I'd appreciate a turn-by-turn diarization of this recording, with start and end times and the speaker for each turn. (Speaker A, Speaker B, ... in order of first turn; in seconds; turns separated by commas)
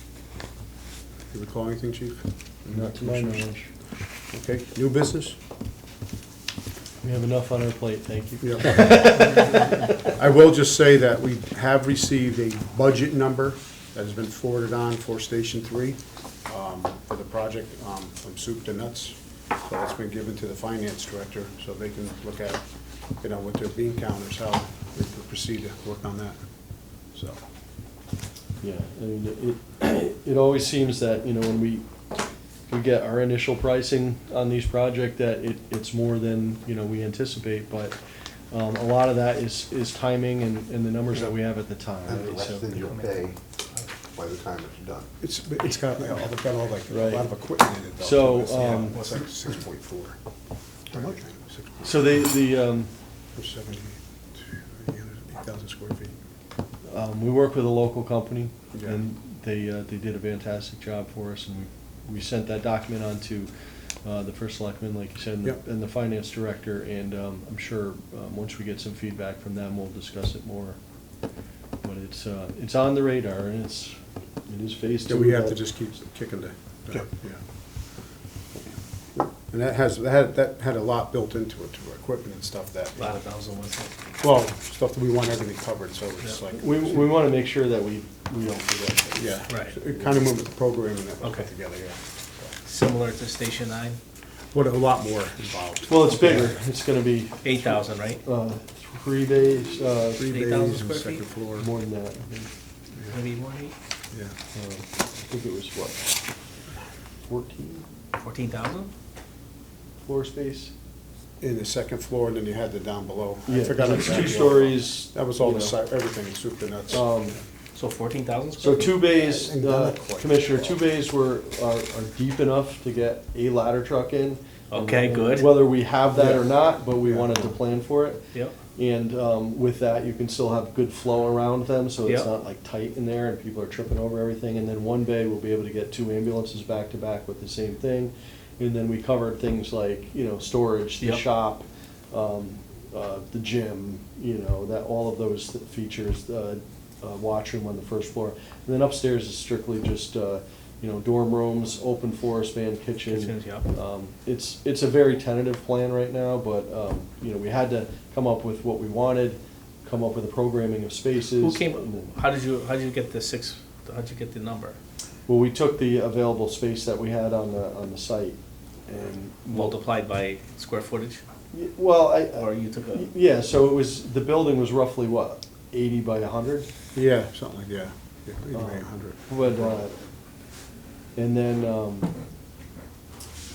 Speaker A: 1.3-3.4, Speaker B: 2.7-3.7, Speaker A: 4.3-5.4, Speaker B: 7.0-10.0, Speaker A: 8.4-22.6, Speaker A: 23.2-26.4, Speaker A: 27.0-27.4, Speaker B: 28.6-31.9, Speaker B: 32.7-38.0, Speaker B: 38.5-42.7, Speaker C: 42.0-43.4, Speaker D: 42.8-43.9, Speaker C: 44.1-45.1, Speaker A: 45.2-50.2, Speaker B: 46.9-47.3, Speaker B: 48.0-49.0, Speaker D: 48.8-49.2, Speaker A: 50.9-52.2, Speaker B: 51.8-52.9, Speaker A: 53.3-56.1, Speaker B: 56.9-63.5, Speaker A: 58.7-59.0, Speaker B: 64.0-70.8, Speaker B: 71.8-75.6, Speaker A: 75.1-77.4, Speaker A: 79.1-83.2, Speaker D: 83.0-83.9, Speaker A: 84.2-87.2, Speaker B: 86.5-90.2, Speaker A: 89.1-92.5, Speaker D: 89.5-89.7, Speaker D: 91.2-91.5, Speaker D: 92.7-94.0, Speaker A: 94.5-96.5, Speaker B: 95.9-100.3, Speaker D: 97.4-98.2, Speaker A: 100.2-101.7, Speaker D: 100.2-101.2, Speaker B: 101.6-102.5, Speaker D: 103.1-103.7, Speaker B: 104.5-106.2, Speaker B: 107.3-107.8, Speaker D: 108.2-108.9, Speaker B: 110.0-110.7, Speaker A: 111.4-117.4, Speaker B: 113.5-115.8, Speaker D: 114.0-114.4, Speaker B: 116.9-117.4, Speaker D: 117.7-119.0, Speaker B: 118.6-128.2, Speaker A: 119.1-120.8, Speaker D: 124.7-125.5, Speaker A: 126.1-127.5, Speaker B: 128.8-162.1, Speaker D: 153.1-153.7, Speaker D: 161.3-164.8, Speaker B: 165.3-169.8, Speaker D: 169.5-171.2, Speaker B: 171.5-176.7, Speaker D: 172.3-173.1, Speaker A: 176.9-179.8, Speaker B: 178.5-180.0, Speaker B: 181.1-182.1